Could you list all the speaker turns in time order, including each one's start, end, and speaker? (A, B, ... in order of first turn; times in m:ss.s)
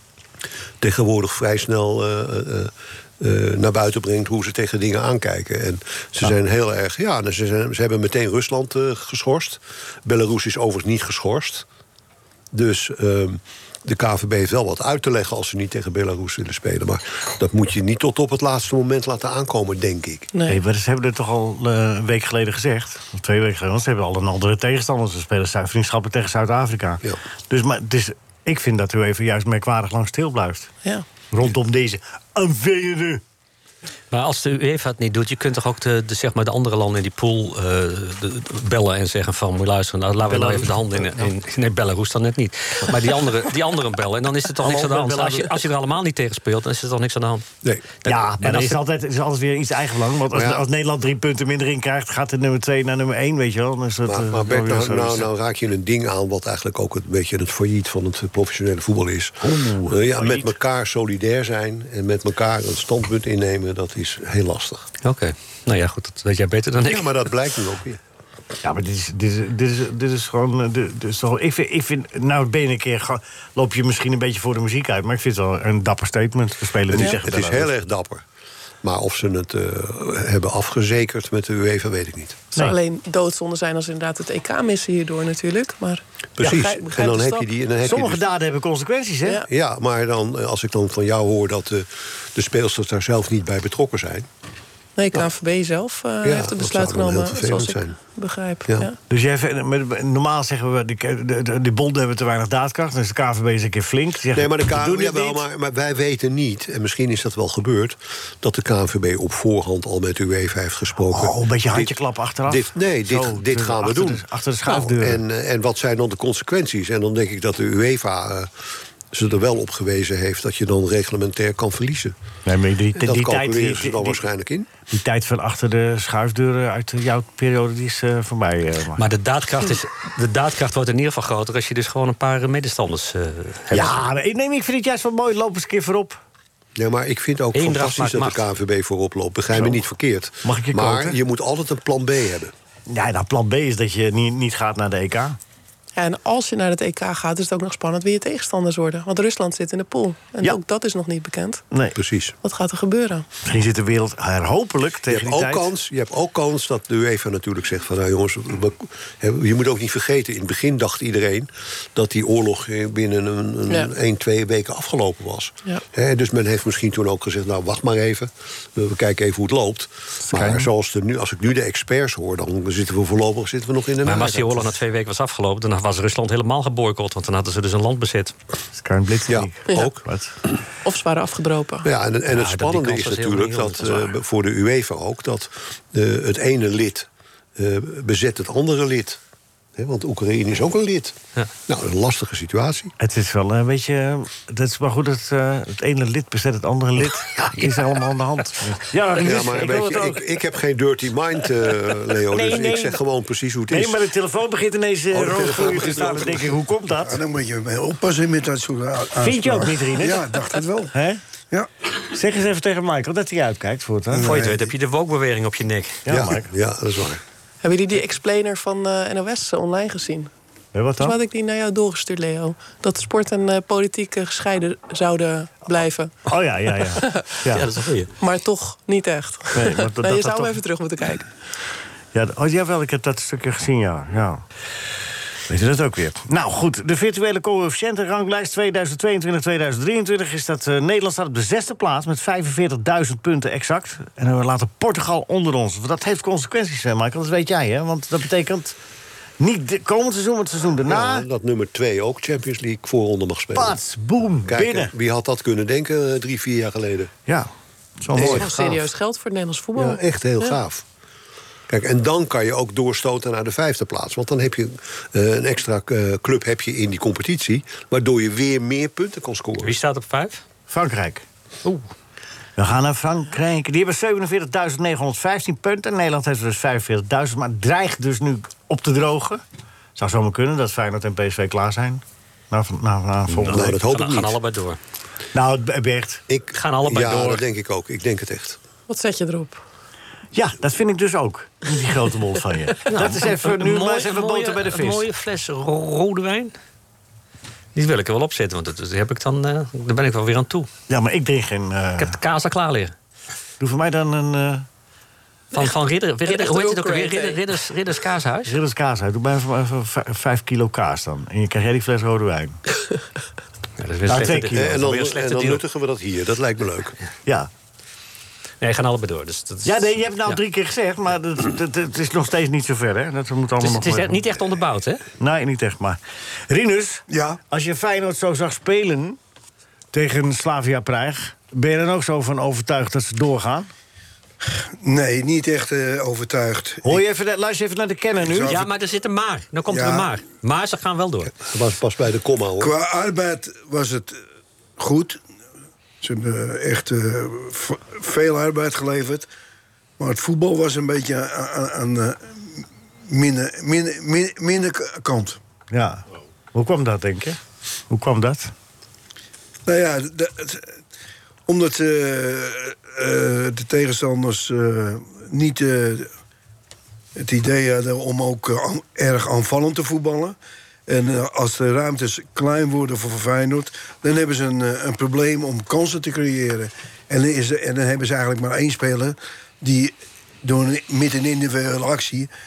0:00.8-0:11.6 A
0:12.5-0:20.3 A
0:20.3-0:20.6 B
0:20.5-0:30.7 C
0:31.3-0:33.2 C
0:34.1-0:47.4 D
0:40.2-0:41.3 C
0:44.6-0:45.7 C
0:48.0-0:48.8 D
0:48.0-0:55.3 C
0:50.3-0:50.6 A
0:54.1-1:04.9 A
0:59.4-1:00.6 C
1:05.0-1:07.2 D
1:06.9-1:08.0 A
1:08.6-1:17.7 C
1:16.9-1:18.2 A
1:18.8-1:22.4 A
1:22.5-1:27.5 B
1:26.4-1:28.2 A
1:27.8-1:29.4 C
1:29.5-1:34.3 A
1:35.0-1:39.0 B
1:36.2-1:38.0 A
1:39.1-1:45.4 C
1:44.3-1:51.9 A
1:51.1-1:55.2 C
1:52.5-1:58.5 A
1:59.1-2:02.1 A
2:02.4-2:04.2 C
2:03.0-2:04.7 A
2:04.9-2:09.1 C
2:09.0-2:14.0 D
2:13.7-2:16.2 C
2:16.8-2:22.5 A
2:17.5-2:18.5 D
2:20.4-2:21.2 C
2:22.9-2:25.4 C
2:26.0-2:31.6 B
2:31.7-2:32.0 C
2:32.0-2:32.4 A
2:32.4-2:33.3 B
2:33.4-2:35.7 C
2:35.1-2:54.8 A
2:50.2-2:50.7 C
2:54.0-2:58.3 D
2:58.7-3:00.3 C
2:59.3-3:00.0 A
3:00.8-3:01.9 B
3:01.8-3:09.2 A
3:02.3-3:04.2 D
3:09.8-3:11.2 A
3:11.7-3:12.9 A
3:13.0-3:20.4 C
3:17.4-3:17.9 D
3:19.2-3:24.0 A
3:22.3-3:23.0 C
3:23.7-3:27.2 C
3:25.1-3:26.5 A
3:27.0-3:30.9 E
3:29.2-3:30.4 C
3:30.9-3:31.2 C
3:32.1-3:34.5 C
3:34.2-3:36.0 D
3:34.3-3:34.7 A
3:36.1-3:36.5 C
3:36.1-3:37.2 A
3:37.6-3:40.3 B
3:40.7-3:41.2 C
3:41.0-3:46.1 B
3:46.3-3:47.7 C
3:47.0-3:47.2 B
3:47.5-3:48.1 D
3:48.2-3:51.3 B
3:49.6-3:50.6 C
3:52.1-3:54.4 C
3:55.5-4:08.8 C
4:09.4-4:11.3 C
4:10.9-4:13.8 A
4:13.5-4:14.9 C
4:14.5-4:17.1 A
4:17.3-4:18.9 C
4:18.2-4:18.5 A
4:18.2-4:20.6 B
4:19.8-4:20.8 A
4:21.7-4:29.8 A
4:29.6-4:30.4 D
4:30.7-4:31.2 C
4:32.6-4:39.4 C
4:40.0-4:43.8 C
4:43.3-4:44.8 D
4:43.5-4:44.4 A
4:45.3-4:46.2 C
4:46.3-4:48.6 A
4:46.5-4:47.4 D
4:48.9-4:49.6 B
4:50.3-4:55.1 C
4:52.9-4:56.5 D
4:57.8-5:00.7 D
5:00.9-5:02.2 C
5:02.0-5:02.9 D
5:03.6-5:04.7 C
5:05.5-5:08.5 D
5:06.2-5:07.4 B
5:08.4-5:12.6 C
5:13.8-5:15.6 D
5:14.1-5:14.9 C
5:14.5-5:17.0 A
5:18.6-5:20.4 D
5:19.6-5:24.3 C
5:23.6-5:25.0 D
5:25.2-5:29.2 C
5:27.1-5:27.4 E
5:29.9-5:33.7 C
5:34.8-5:37.0 E
5:36.8-5:38.6 C
5:38.2-5:38.7 E
5:38.5-5:41.3 D
5:39.7-5:40.1 E
5:41.4-5:42.7 A
5:42.6-5:44.2 E
5:44.8-5:45.2 E
5:46.0-5:49.3 E
5:50.0-5:55.4 E
5:55.7-5:56.0 C
5:56.5-5:57.4 C
5:57.9-5:58.5 C
5:59.7-6:00.7 E
6:01.5-6:06.1 E
6:07.2-6:22.3 E